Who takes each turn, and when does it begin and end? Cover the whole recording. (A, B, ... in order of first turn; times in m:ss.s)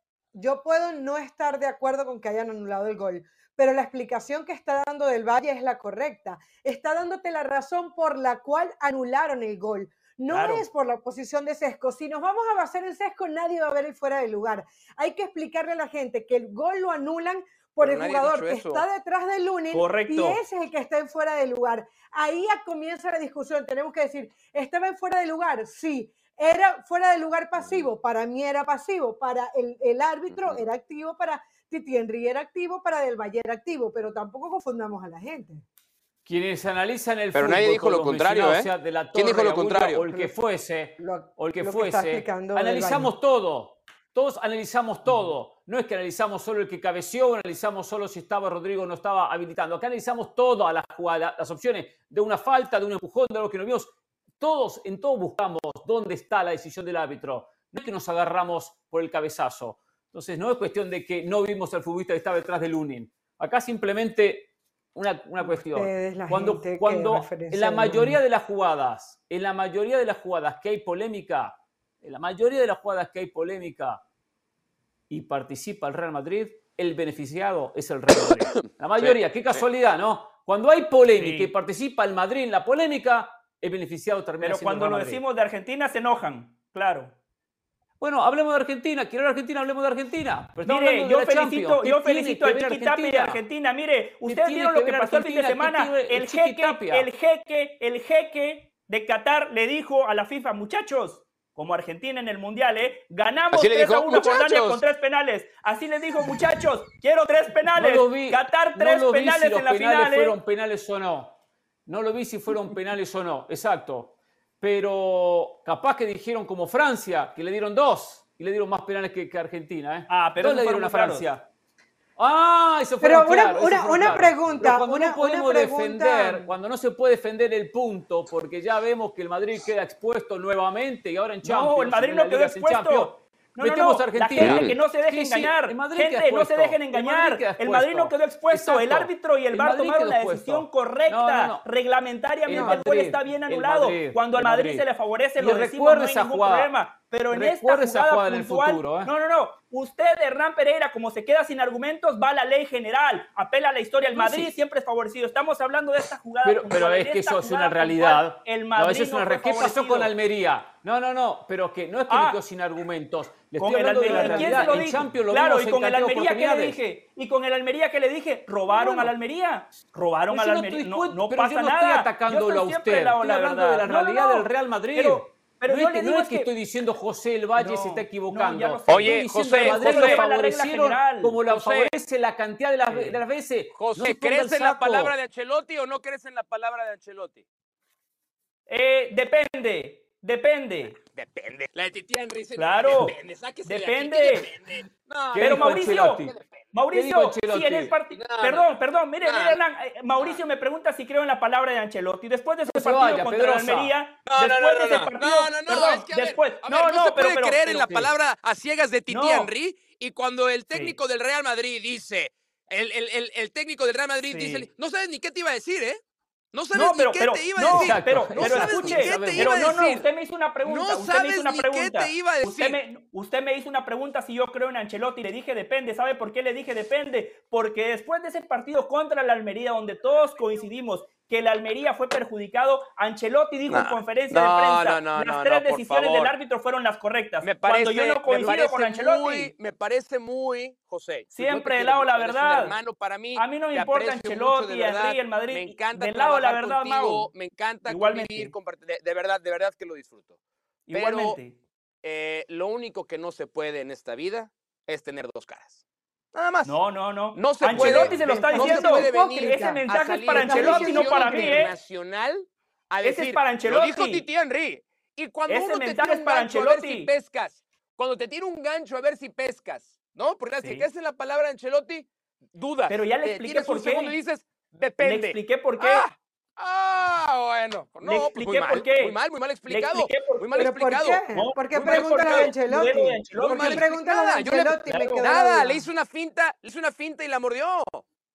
0:00.3-0:35.6 A
0:10.3-0:10.6 B
0:17.8-0:18.8 C
0:19.7-0:20.4 B
0:30.3-0:30.6 C
0:36.2-1:14.0 D
0:37.3-0:40.0 C
0:41.0-0:43.1 A
1:05.4-1:08.2 A
1:15.1-1:25.2 D
1:19.0-1:19.6 C
1:21.1-1:21.5 B
1:24.4-1:27.1 B
1:28.0-1:33.4 D
1:30.6-1:50.4 B
1:34.2-1:37.1 D
1:43.5-1:44.8 C
1:47.8-1:51.3 D
1:51.8-2:01.4 D
2:00.1-2:01.3 B
2:02.2-2:21.6 D
2:03.0-2:06.5 A
2:11.4-2:40.1 B
2:14.4-2:14.8 C
2:22.4-2:24.8 D
2:25.4-2:26.7 D
2:27.3-2:29.1 D
2:34.1-2:34.6 D
2:36.4-2:46.8 D
2:42.1-2:42.4 B
2:43.6-2:56.5 B
2:44.0-2:44.4 A
2:48.7-2:49.1 D
2:50.3-3:05.1 D
2:57.6-3:01.4 B
2:58.9-3:00.2 C
3:01.5-3:01.9 C
3:03.7-3:07.4 C
3:08.7-3:11.0 B
3:11.1-3:16.6 C
3:12.6-3:14.5 B
3:15.3-3:16.3 D
3:15.3-3:27.9 B
3:16.9-3:17.9 D
3:18.1-3:18.7 C
3:19.2-3:19.6 C
3:22.7-3:23.9 D
3:24.3-3:36.0 C
3:27.8-3:28.1 D
3:29.1-3:29.5 B
3:30.7-3:31.0 B
3:34.3-3:34.7 B
3:36.5-3:40.1 C
3:36.7-3:59.5 B
3:37.7-3:39.7 D
3:40.6-3:42.8 C
3:53.7-3:56.3 C
3:57.4-4:10.3 C
4:01.3-4:02.8 B
4:03.4-4:07.3 B
4:07.8-4:08.5 B
4:10.9-4:11.6 B
4:10.9-4:11.4 C
4:12.0-4:15.8 C
4:16.3-4:16.8 C
4:16.6-4:21.7 B
4:17.3-4:42.6 C
4:17.7-4:21.7 A
4:23.0-4:24.2 B
4:25.5-4:27.1 B
4:32.9-4:34.2 B
4:35.0-4:36.0 B
4:38.0-4:40.7 B
4:40.6-4:45.9 A
4:41.3-4:43.9 B
4:43.3-4:48.0 C
4:44.9-4:45.2 B